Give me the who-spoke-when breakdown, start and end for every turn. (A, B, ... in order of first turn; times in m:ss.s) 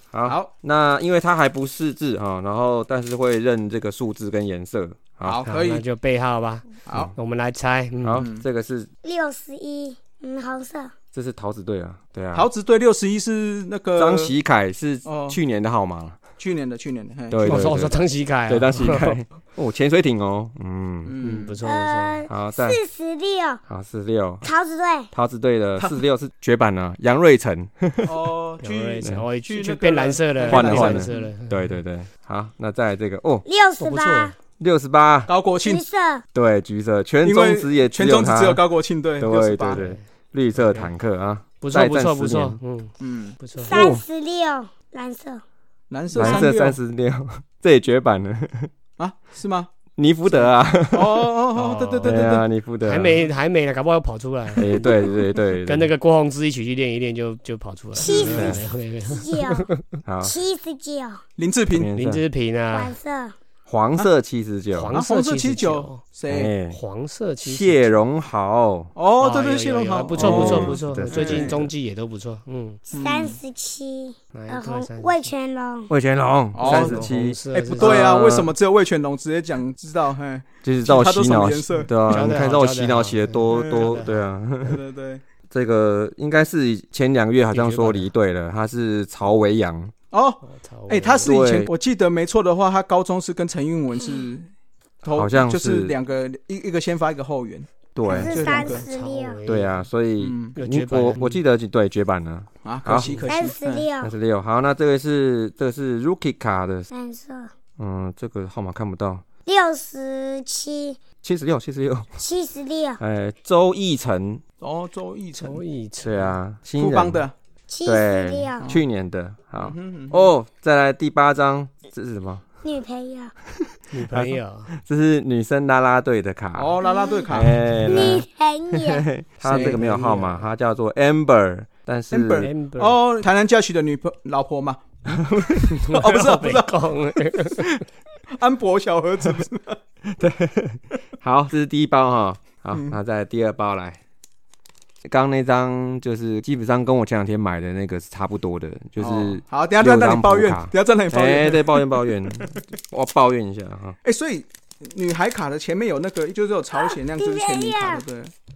0:00.1-0:05.4 A
0:00.2-0:00.5 B
0:05.2-0:05.8 B
0:05.5-0:08.2 C
0:06.9-0:07.1 B
0:08.0-0:08.9 A
0:08.2-0:08.4 B
0:09.0-0:10.9 D
0:11.1-0:12.5 A
0:12.3-0:14.4 B
0:14.0-0:16.2 A
0:15.0-0:15.4 B
0:16.4-0:17.8 B
0:17.3-0:21.1 A
0:17.4-0:19.2 C
0:21.0-0:21.6 B
0:21.2-0:22.2 C
0:21.6-0:23.6 D
0:22.3-0:22.8 A
0:23.7-0:24.5 A
0:24.4-0:25.1 D
0:25.1-0:28.2 A
0:28.0-0:31.3 B
0:28.6-0:31.8 C
0:30.5-0:33.4 A
0:33.4-0:34.4 D
0:33.8-0:34.3 C
0:34.6-0:35.3 A
0:35.3-0:35.8 B
0:35.6-0:36.2 D
0:36.4-0:38.6 A
0:37.2-0:39.8 B
0:39.2-0:42.6 A
0:39.7-0:40.0 C
0:40.6-0:40.9 C
0:41.6-0:43.8 C
0:43.0-0:43.4 B
0:43.6-0:45.4 D
0:43.7-0:44.0 A
0:45.9-0:46.8 B
0:46.2-0:48.7 A
0:49.0-0:49.7 B
0:50.0-0:51.3 A
0:50.3-0:52.5 B
0:51.6-0:52.2 C
0:52.0-0:53.3 A
0:52.8-0:59.8 C
0:54.6-0:55.9 A
0:58.0-0:59.7 D
0:58.1-0:58.5 B
0:58.2-0:58.6 A
1:00.1-1:00.4 A
1:00.2-1:01.2 D
1:01.4-1:01.9 B
1:01.7-1:02.2 A
1:02.0-1:02.9 C
1:02.7-1:03.4 D
1:03.7-1:04.9 A
1:04.8-1:06.0 C
1:04.9-1:06.5 B
1:06.3-1:06.8 A
1:06.7-1:07.9 C
1:07.4-1:08.9 A
1:08.9-1:11.6 B
1:09.2-1:12.8 C
1:10.2-1:11.7 A
1:12.9-1:13.4 B
1:12.9-1:15.9 D
1:14.3-1:15.3 C
1:15.9-1:18.5 A
1:16.6-1:21.9 B
1:16.6-1:18.1 C
1:20.6-1:24.8 A
1:22.1-1:24.2 C
1:23.5-1:24.0 B
1:24.6-1:25.2 B
1:25.5-1:29.9 A
1:27.5-1:28.1 C
1:30.1-1:34.5 B
1:30.5-1:31.3 C
1:31.2-1:31.7 A
1:35.0-1:38.8 B
1:35.1-1:35.9 A
1:37.9-1:38.7 A
1:38.1-1:39.4 D
1:38.4-1:39.8 C
1:39.5-1:43.2 A
1:40.2-1:40.6 B
1:40.6-1:41.4 C
1:42.6-1:43.9 B
1:43.2-1:44.1 D
1:44.0-1:46.9 A
1:46.9-1:47.5 D
1:47.8-1:49.2 A
1:49.5-1:51.0 D
1:51.2-1:52.2 A
1:52.2-1:53.0 D
1:53.0-1:54.4 A
1:54.6-1:55.6 B
1:55.4-1:56.4 C
1:56.0-1:57.2 A
1:56.8-1:57.3 B
1:57.7-1:58.7 D
1:57.8-2:02.4 A
1:59.6-2:00.3 B
2:02.6-2:03.3 D
2:03.6-2:06.8 A
2:03.9-2:04.7 C
2:06.6-2:08.2 B
2:06.8-2:07.3 D
2:07.3-2:12.5 A
2:07.8-2:09.1 D
2:09.4-2:10.4 C
2:09.5-2:09.8 B
2:12.1-2:14.8 B
2:12.4-2:13.0 C
2:15.1-2:15.9 A
2:15.6-2:17.0 B
2:15.8-2:17.8 C
2:18.4-2:19.8 B
2:20.0-2:24.0 A
2:25.0-2:34.0 A
2:29.0-2:32.6 B
2:34.0-2:38.3 B
2:36.7-2:38.0 D